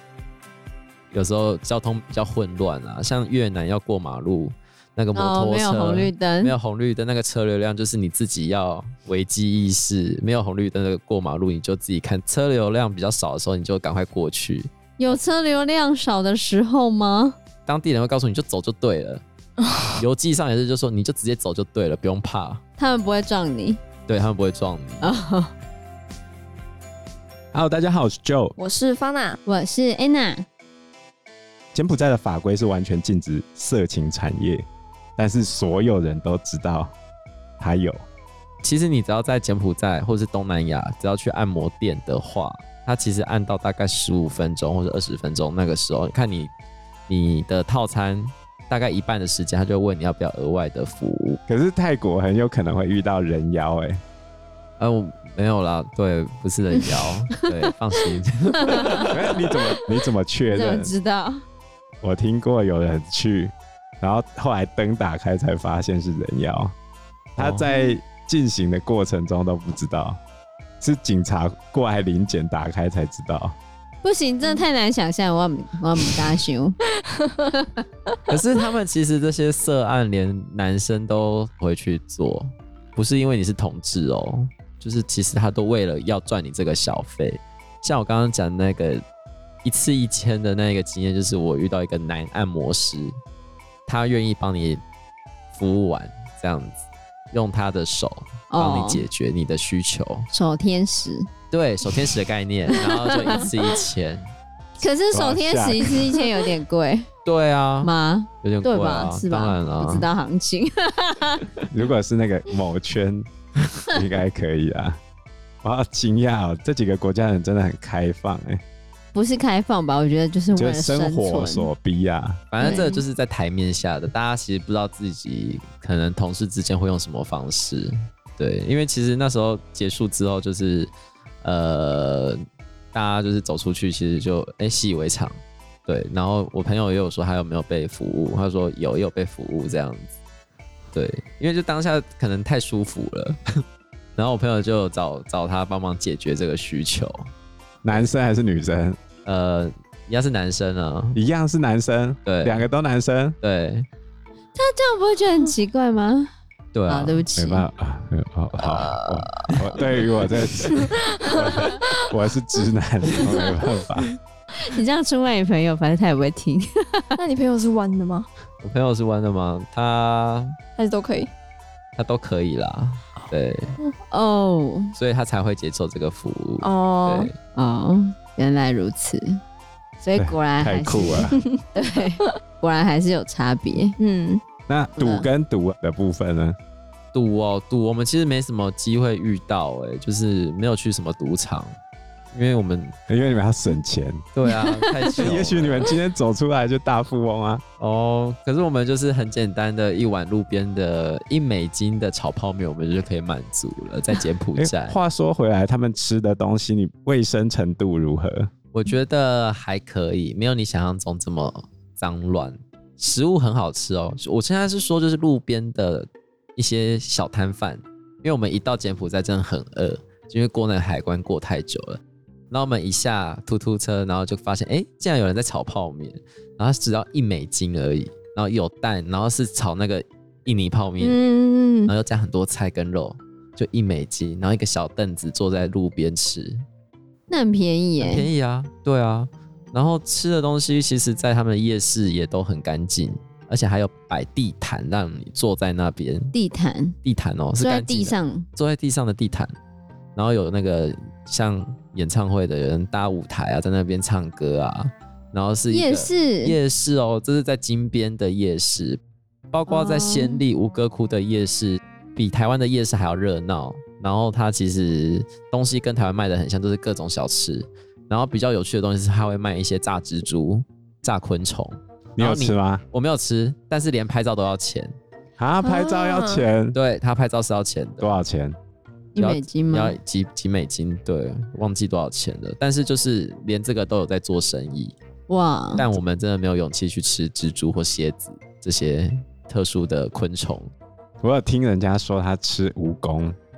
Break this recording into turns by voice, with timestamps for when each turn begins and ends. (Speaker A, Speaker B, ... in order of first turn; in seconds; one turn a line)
Speaker A: 1.1-14.7
Speaker B: 5.1-6.5
Speaker B: 15.0-17.4
Speaker A: 17.7-19.2
Speaker C: 19.6-20.0
Speaker A: 20.0-22.6
Speaker B: 22.8-23.8
Speaker A: 24.1-25.1
Speaker B: 25.0-25.5
Speaker D: 27.5-28.6
Speaker C: 28.6-29.4
Speaker B: 29.4-30.4
Speaker D: 31.7-34.7
Speaker D: 35.2-36.9
Speaker D: 37.6-38.0
Speaker A: 38.6-46.5
Speaker A: 47.1-51.4
Speaker D: 51.5-54.0
Speaker A: 54.8-59.1
Speaker B: 58.6-59.1
Speaker D: 59.0-60.9
Speaker B: 60.5-61.4
Speaker D: 62.0-66.7
Speaker A: 67.4-67.7
Speaker D: 67.4-70.2
Speaker D: 70.8-73.6
Speaker B: 74.0-76.8
Speaker C: 77.1-77.5
Speaker B: 77.5-77.8
Speaker A: 78.3-89.0
Speaker A: 89.6-93.1
Speaker A: 93.9-94.8
Speaker A: 95.5-100.3
Speaker B: 98.5-99.0
Speaker B: 100.3-101.3
Speaker A: 101.5-104.3
Speaker B: 102.7-103.5
Speaker B: 104.8-107.1
Speaker D: 105.1-105.9
Speaker A: 107.2-110.1
Speaker B: 107.8-111.5
Speaker D: 111.7-113.3
Speaker D: 113.9-115.0
Speaker D: 115.6-118.6
Speaker B: 119.1-121.7
Speaker D: 120.5-122.4
Speaker A: 122.5-130.9
Speaker B: 122.6-123.0
Speaker A: 131.4-132.4
Speaker A: 132.9-140.1
Speaker A: 140.9-143.4
Speaker A: 144.2-147.2
Speaker D: 147.8-149.0
Speaker A: 149.2-151.2
Speaker D: 151.1-153.4
Speaker A: 152.2-152.7
Speaker A: 153.4-153.9
Speaker B: 154.5-156.3
Speaker A: 156.7-157.2
Speaker B: 156.9-157.7
Speaker D: 157.3-164.1
Speaker A: 158.6-160.3
Speaker C: 160.7-161.9
Speaker B: 164.6-167.2
Speaker C: 167.2-168.3
Speaker A: 168.6-170.5
Speaker C: 170.8-171.3
Speaker A: 172.0-173.8
Speaker B: 174.1-174.9
Speaker A: 174.9-177.3
Speaker C: 176.6-177.3
Speaker B: 177.6-179.4
Speaker B: 180.0-181.2
Speaker D: 180.1-181.4
Speaker C: 181.2-182.3
Speaker B: 181.8-183.9
Speaker C: 184.0-184.4
Speaker D: 184.7-186.6
Speaker B: 185.0-185.3
Speaker A: 187.1-191.8
Speaker A: 192.3-192.9
Speaker D: 193.1-194.2
Speaker A: 194.3-195.9
Speaker D: 195.1-197.6
Speaker A: 197.8-204.9
Speaker D: 204.6-208.5
Speaker A: 208.7-231.2
Speaker C: 231.0-231.9
Speaker A: 231.8-236.6
Speaker B: 237.3-238.3
Speaker A: 238.0-246.3
Speaker B: 246.3-246.9
Speaker A: 247.0-249.5
Speaker B: 247.6-248.5
Speaker A: 250.1-274.9
Speaker B: 255.7-256.6
Speaker B: 259.7-260.4
Speaker D: 272.2-272.8
Speaker D: 275.4-276.8
Speaker C: 275.6-276.5
Speaker A: 276.7-278.2
Speaker D: 278.0-278.6
Speaker B: 279.1-280.0
Speaker A: 279.2-285.0
Speaker B: 285.3-285.9
Speaker A: 285.8-290.7
Speaker D: 291.2-293.4